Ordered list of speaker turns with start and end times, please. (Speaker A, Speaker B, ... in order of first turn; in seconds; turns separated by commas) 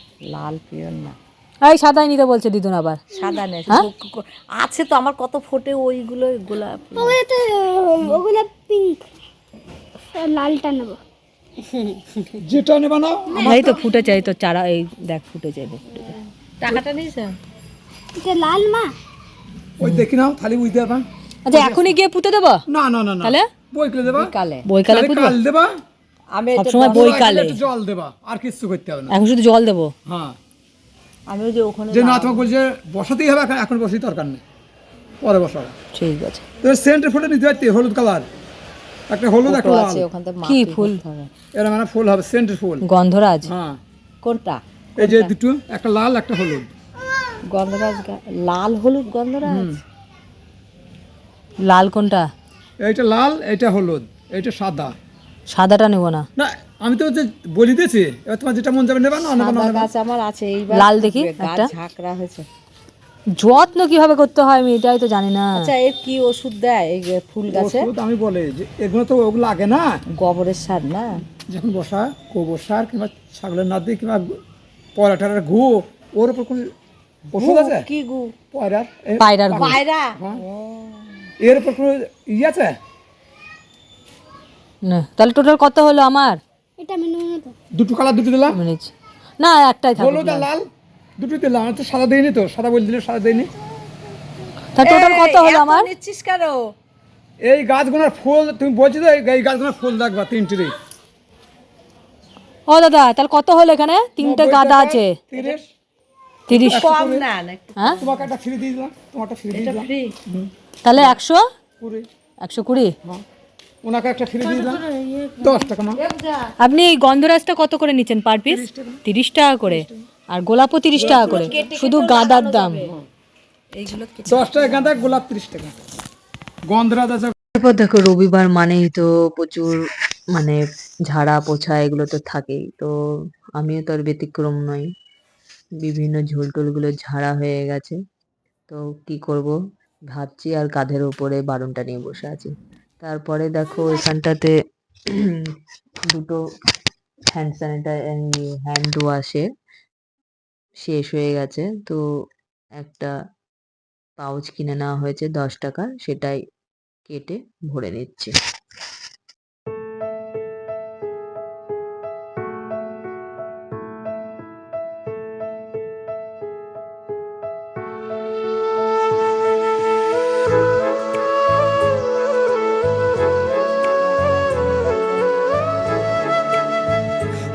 Speaker A: 0.2-1.1, Speaker B: 1.6-3.0, Speaker A: 3.1-7.2, Speaker C: 7.0-9.1, Speaker C: 10.1-11.0, Speaker D: 12.4-13.7, Speaker A: 13.3-13.7, Speaker B: 13.4-16.1, Speaker A: 16.6-17.4, Speaker C: 18.1-18.9, Speaker D: 19.8-21.9, Speaker B: 21.4-22.6, Speaker D: 22.7-24.3, Speaker B: 23.2-23.5, Speaker A: 24.0-24.7, Speaker B: 24.6-25.4, Speaker D: 24.9-25.8, Speaker A: 26.3-27.1, Speaker B: 26.5-27.6, Speaker D: 26.8-29.1, Speaker B: 29.1-29.9, Speaker D: 30.1-30.4, Speaker A: 31.3-32.5, Speaker D: 31.9-34.4, Speaker D: 35.2-35.7, Speaker B: 35.9-36.4, Speaker D: 36.6-38.3, Speaker D: 39.1-40.0, Speaker A: 39.4-41.3, Speaker B: 40.4-41.0, Speaker D: 41.5-42.9, Speaker B: 42.8-43.5, Speaker D: 43.4-43.8, Speaker A: 44.2-45.3, Speaker D: 45.0-46.7, Speaker A: 47.5-49.8, Speaker D: 49.4-49.8, Speaker B: 51.6-52.3, Speaker D: 52.8-54.9, Speaker B: 55.5-56.2, Speaker D: 56.4-59.9, Speaker A: 59.3-62.5, Speaker B: 60.7-61.7, Speaker B: 63.4-65.7, Speaker A: 65.5-67.9, Speaker D: 67.5-70.0, Speaker A: 70.1-71.2, Speaker D: 71.5-74.4, Speaker D: 74.9-76.7, Speaker D: 77.3-77.9, Speaker A: 77.3-78.3, Speaker D: 78.5-79.2, Speaker B: 79.2-79.8, Speaker A: 79.5-81.3, Speaker D: 80.2-80.4, Speaker D: 81.4-82.8, Speaker B: 84.8-86.4, Speaker C: 86.8-87.5, Speaker D: 87.7-88.6, Speaker B: 88.5-90.5, Speaker D: 90.0-90.7, Speaker D: 91.2-93.5, Speaker B: 94.7-95.9, Speaker A: 94.8-96.7, Speaker D: 97.4-100.7, Speaker B: 102.7-105.2, Speaker D: 104.2-105.7, Speaker B: 106.5-106.9, Speaker D: 106.5-107.3, Speaker A: 106.6-108.3, Speaker D: 108.0-111.1, Speaker A: 109.5-110.2, Speaker B: 110.8-111.4, Speaker D: 111.8-112.1, Speaker B: 112.4-112.9, Speaker D: 113.8-114.8, Speaker A: 114.4-116.5, Speaker D: 115.4-116.0, Speaker B: 116.6-122.9, Speaker D: 118.5-119.0, Speaker D: 121.0-121.6, Speaker A: 121.2-122.9, Speaker A: 123.7-125.2, Speaker D: 124.2-125.8, Speaker D: 126.7-127.3, Speaker E: 127.5-129.8, Speaker E: 130.3-132.9, Speaker E: 133.6-134.9, Speaker E: 135.8-138.0, Speaker E: 138.7-139.5, Speaker E: 140.1-144.5, Speaker E: 145.1-145.5, Speaker E: 146.1-146.4, Speaker E: 147.3-149.4, Speaker E: 150.8-152.0, Speaker E: 152.8-153.1, Speaker E: 154.2-156.4, Speaker E: 157.1-158.3